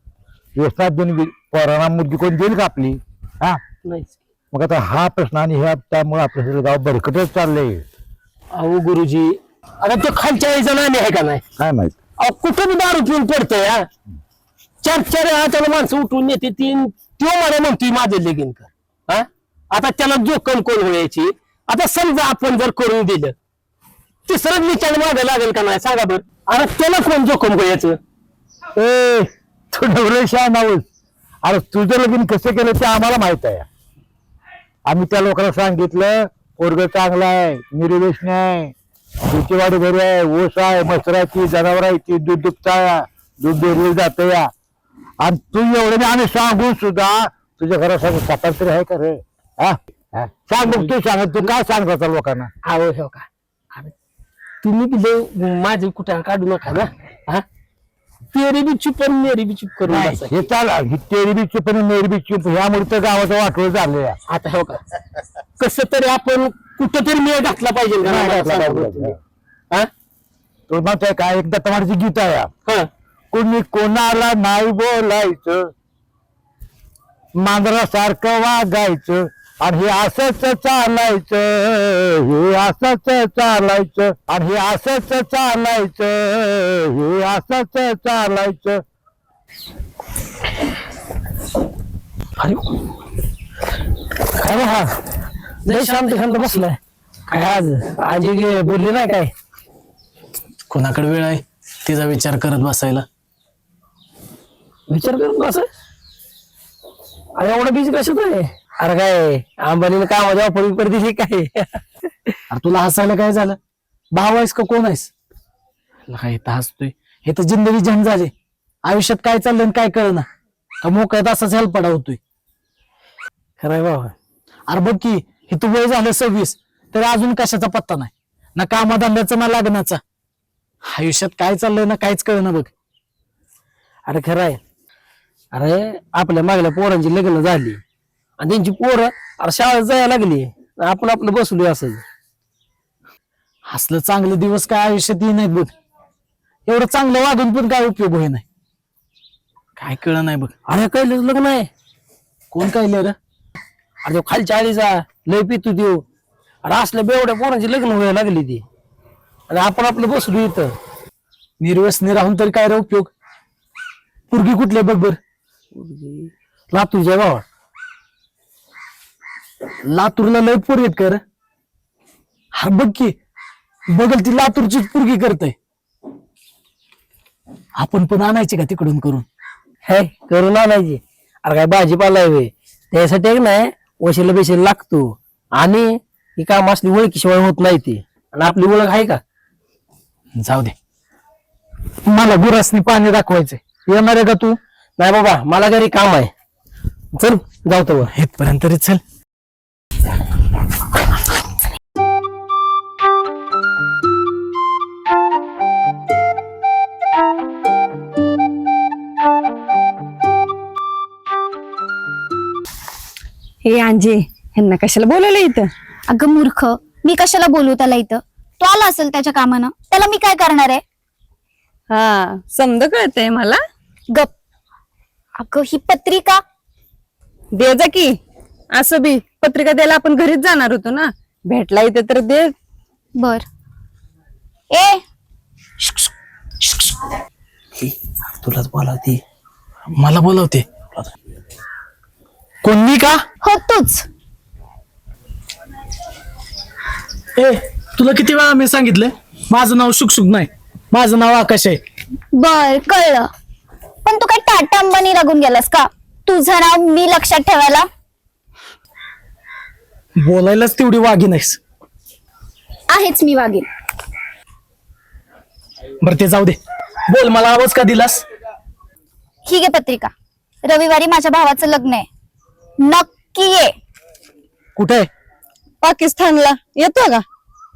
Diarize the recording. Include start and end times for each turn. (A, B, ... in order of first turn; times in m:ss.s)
0:00.6-0:03.6 A
0:03.8-0:04.2 B
0:04.5-0:07.8 A
0:08.5-0:11.4 B
0:11.6-0:12.0 A
0:12.2-0:13.9 B
0:14.8-0:23.4 B
0:24.3-0:28.0 B
0:28.8-0:30.9 A
0:31.4-0:33.7 A
0:34.9-0:38.7 A
0:39.3-0:44.5 A
0:45.2-0:52.5 A
0:50.6-0:51.0 B
0:52.6-0:53.9 B
0:54.6-0:57.4 B
0:58.3-1:00.4 B
0:59.9-1:04.2 A
1:04.3-1:04.8 B
1:05.6-1:09.2 B
1:08.0-1:09.2 A
1:10.7-1:12.5 A
1:13.3-1:15.7 A
1:17.4-1:28.8 A
1:32.4-1:32.7 B
1:34.3-1:34.8 B
1:35.7-1:36.7 C
1:35.7-1:39.3 B
1:40.7-1:43.1 C
1:44.9-1:45.7 B
1:47.4-1:51.7 B
1:52.5-1:53.6 C
1:54.1-1:55.1 C
1:56.1-1:58.3 C
1:58.8-2:00.3 C
2:00.8-2:02.2 C
2:03.6-2:04.2 B
2:04.7-2:10.0 C
2:10.9-2:12.7 C
2:14.1-2:14.6 B
2:15.5-2:17.8 B
2:18.4-2:22.0 B
2:23.7-2:25.7 C
2:26.7-2:28.4 C
2:29.8-2:30.5 C
2:30.7-2:31.7 B
2:32.5-2:33.2 C
2:34.0-2:36.0 B
2:36.6-2:38.6 B
2:39.5-2:40.8 B
2:41.6-2:43.1 C
2:44.3-2:45.2 C
2:45.7-2:47.4 B
2:49.9-2:51.2 C
2:52.5-2:53.2 C
2:53.9-2:55.6 C
2:57.8-2:59.2 C
2:59.8-3:09.2 B
3:10.3-3:10.7 C
3:12.1-3:14.6 C
3:15.0-3:16.3 B
3:17.2-3:18.1 B
3:18.1-3:19.0 C
3:33.7-3:35.6 D
3:36.1-3:40.8 E
3:41.9-3:43.6 D
3:45.4-3:46.4 E
3:47.6-3:48.1 D
3:48.8-3:52.5 D
3:53.2-3:53.4 E
3:54.7-3:55.0 E
3:57.8-3:59.2 B
3:59.9-4:00.9 C
4:02.6-4:03.2 C
4:03.4-4:04.0 E
4:07.4-4:11.8 C
4:12.4-4:13.3 E
4:14.0-4:17.8 E
4:20.2-4:21.6 C
4:22.9-4:23.6 E
4:26.0-4:28.2 C
4:29.4-4:30.1 E
4:30.6-4:32.1 E
4:32.8-4:33.7 E
4:34.8-4:35.1 C
4:35.8-4:37.2 D